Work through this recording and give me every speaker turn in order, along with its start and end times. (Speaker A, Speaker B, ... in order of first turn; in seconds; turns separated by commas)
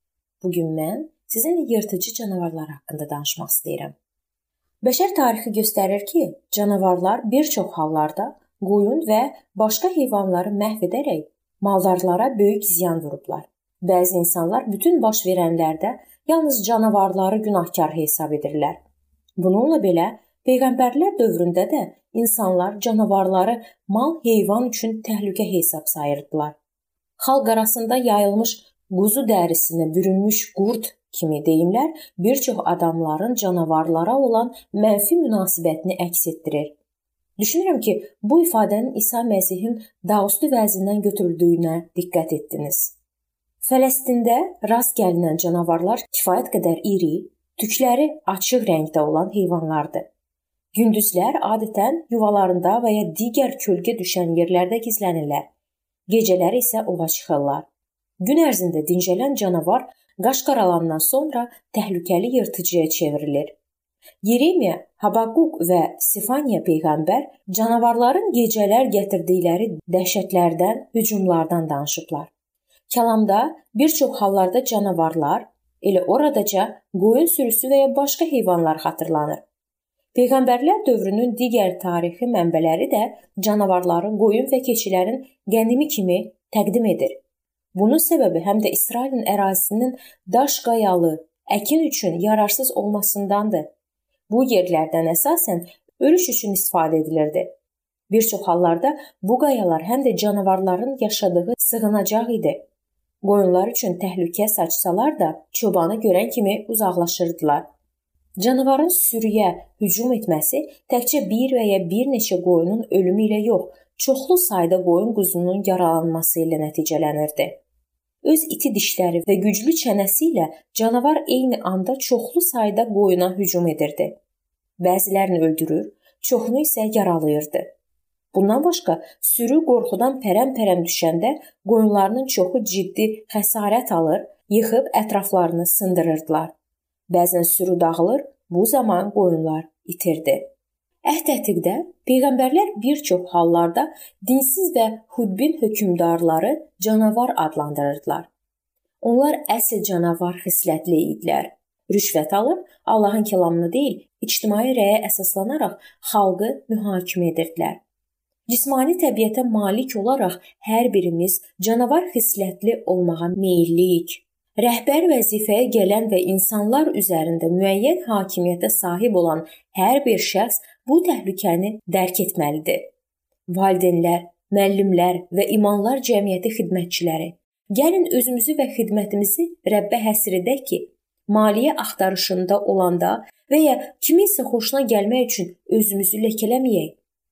Speaker A: 0.4-4.0, Speaker A: 4.8-18.8, Speaker A: 19.4-26.6, Speaker A: 27.2-36.8, Speaker A: 37.4-42.9, Speaker A: 43.6-50.1, Speaker A: 50.7-55.5, Speaker A: 56.1-57.6, Speaker A: 58.2-63.5, Speaker A: 64.2-72.3, Speaker A: 72.9-79.4, Speaker A: 80.1-87.2, Speaker A: 87.7-93.7, Speaker A: 94.3-97.5, Speaker A: 98.1-102.6, Speaker A: 103.2-107.6, Speaker A: 108.4-117.6, Speaker A: 118.2-124.2, Speaker A: 124.8-127.7, Speaker A: 128.3-136.5, Speaker A: 137.1-140.5, Speaker A: 141.1-148.3, Speaker A: 149.0-157.8, Speaker A: 158.5-172.9, Speaker A: 173.5-187.0